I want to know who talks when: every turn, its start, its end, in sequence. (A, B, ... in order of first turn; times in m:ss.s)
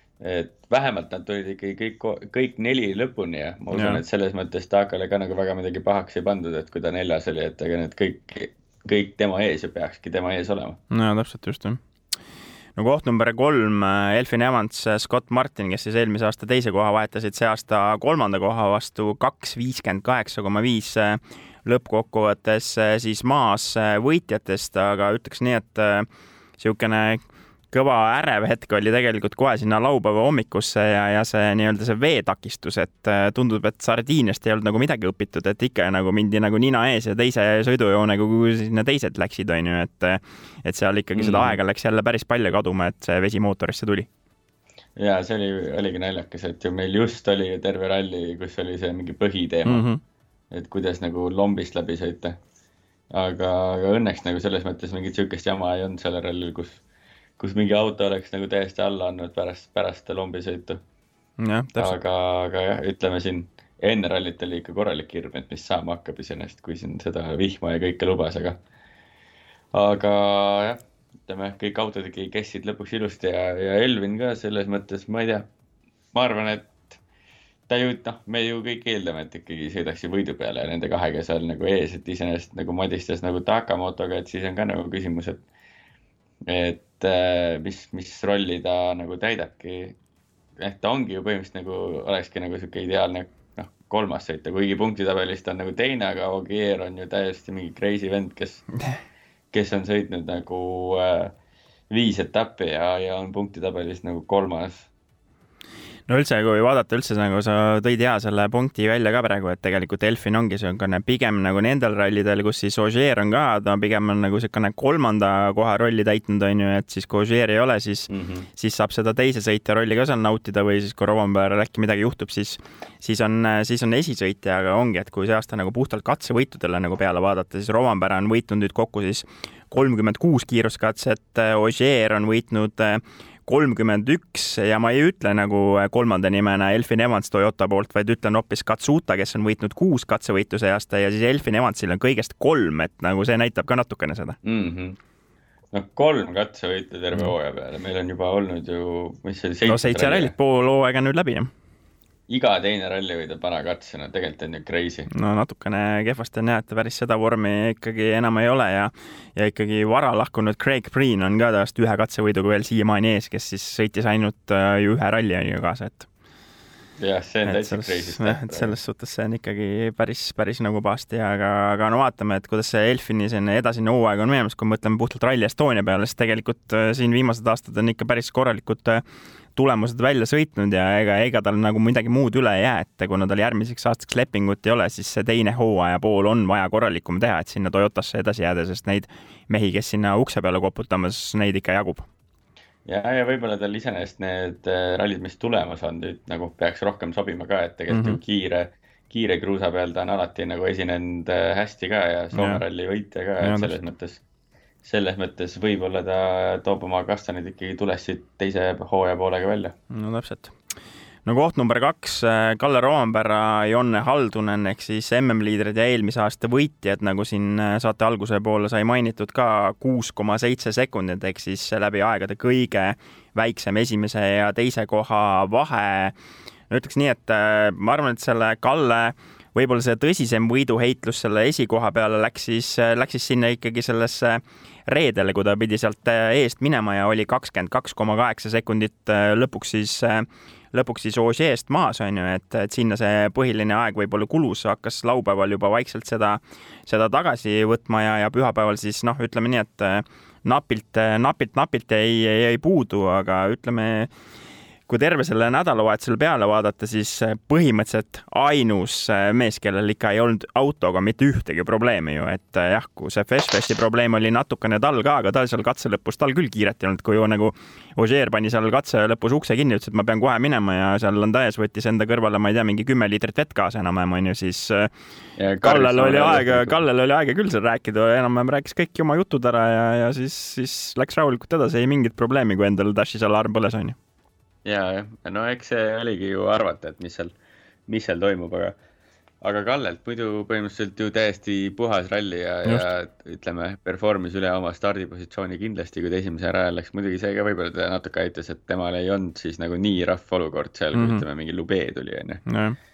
0:00.2-0:10.8 A
0:03.7-0:04.0 B
0:10.9-0:11.8 B
0:12.8-0:26.1 B
0:26.6-0:44.1 B
0:41.2-0:41.6 A
0:45.0-0:49.8 A
0:49.6-0:50.0 B
0:50.5-0:52.4 A
0:53.1-0:56.8 A
0:57.4-1:00.8 A
1:01.4-1:02.0 B
1:01.8-1:08.6 A
1:09.7-1:15.5 A
1:16.1-1:17.0 A
1:17.7-1:25.4 A
1:26.5-1:30.0 A
1:30.6-1:38.6 A
1:39.5-1:41.3 A
1:41.9-1:44.9 A
1:46.1-2:24.4 B
1:58.1-1:58.5 A
2:24.4-2:25.0 A
2:25.7-2:30.3 A
2:29.6-2:31.5 B
2:32.3-2:35.1 A
2:35.1-2:46.1 B
2:47.0-2:48.7 A
2:47.4-2:59.0 B
2:59.6-3:12.0 B
3:12.8-3:24.2 A
3:17.9-3:18.2 B
3:22.3-3:22.6 B
3:23.4-3:23.8 B
3:24.8-3:29.7 A
3:29.9-3:30.5 B
3:31.2-3:46.1 B
3:46.7-4:14.1 B
4:14.9-4:34.9 B
4:35.4-4:36.8 A
4:35.6-4:44.0 B
4:44.6-4:47.3 A
4:47.9-4:48.8 A
4:49.4-5:02.4 A
5:00.9-5:01.2 B
5:02.5-5:02.8 B